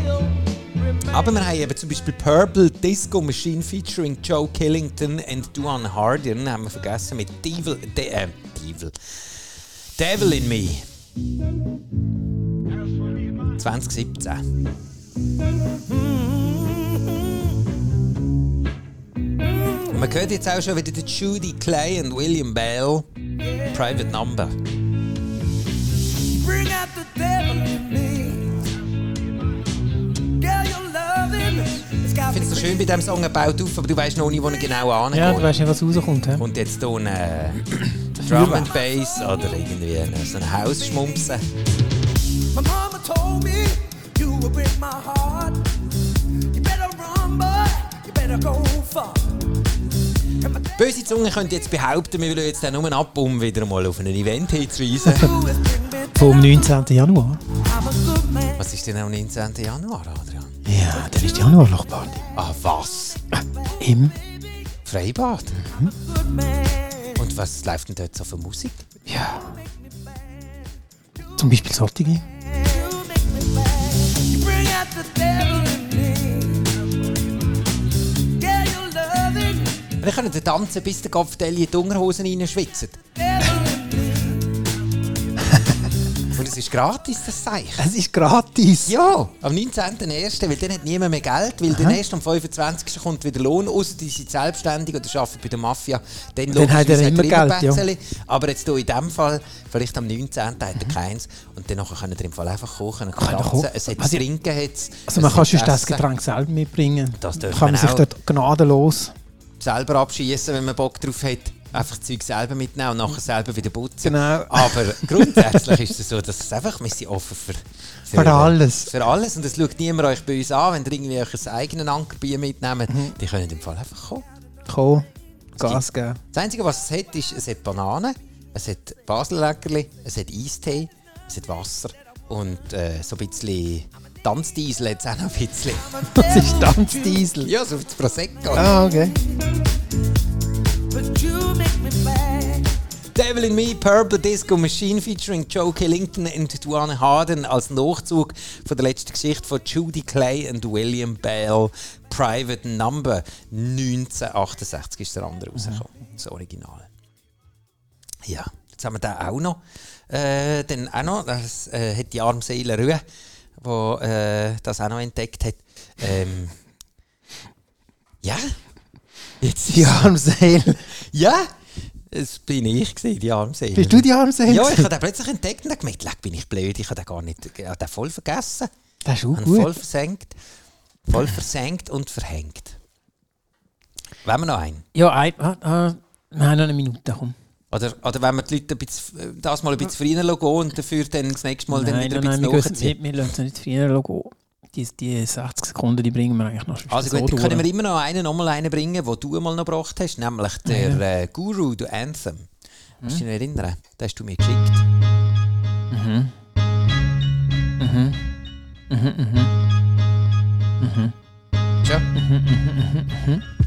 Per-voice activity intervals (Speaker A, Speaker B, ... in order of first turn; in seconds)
Speaker A: 1.0-9.4, 9.9-10.8, 13.6-14.4, 19.9-23.1, 23.7-24.6, 32.3-35.5, 36.4-41.4, 50.8-55.4, 58.5-60.6, 62.3-63.2, 64.8-65.7, 67.1-68.8, 80.0-83.0, 86.3-87.9, 88.8-106.0, 107.2-108.1, 109.6-124.2, 125.6-138.8, 143.1-156.9, 158.2-163.0, 163.6-166.6, 168.2-168.6, 169.4-170.2, 170.8-178.7, 179.3-180.3, 181.1-182.8, 184.2-184.8, 187.7-193.0, 196.9-202.5, 203.0-204.8
Speaker B: 26.3-28.6, 30.4-32.8, 42.5-45.7, 46.5-49.4, 50.4-50.7, 55.2-56.5, 57.7-58.6, 66.0-67.1, 72.5-76.7, 78.4-79.8, 83.2-84.4, 140.9-142.7
Speaker C: 35.1-36.4, 38.2-38.7, 55.0-55.3, 56.1-57.4, 60.6-62.3, 63.8-64.1, 65.6-65.9, 69.1-69.5, 71.4-72.2, 87.8-88.9, 91.7-92.0, 96.5-97.8, 103.2-104.2, 105.1-109.1, 114.0-115.8, 118.1-118.9, 122.9-123.2, 124.7-126.2, 136.1-137.5, 138.5-139.2, 169.7-170.8, 173.7-174.9, 179.0-179.7, 184.9-187.3, 191.7-197.7, 200.7-201.0, 205.9-206.3, 207.8-208.2, 208.9-209.5, 210.8-211.1, 212.1-213.4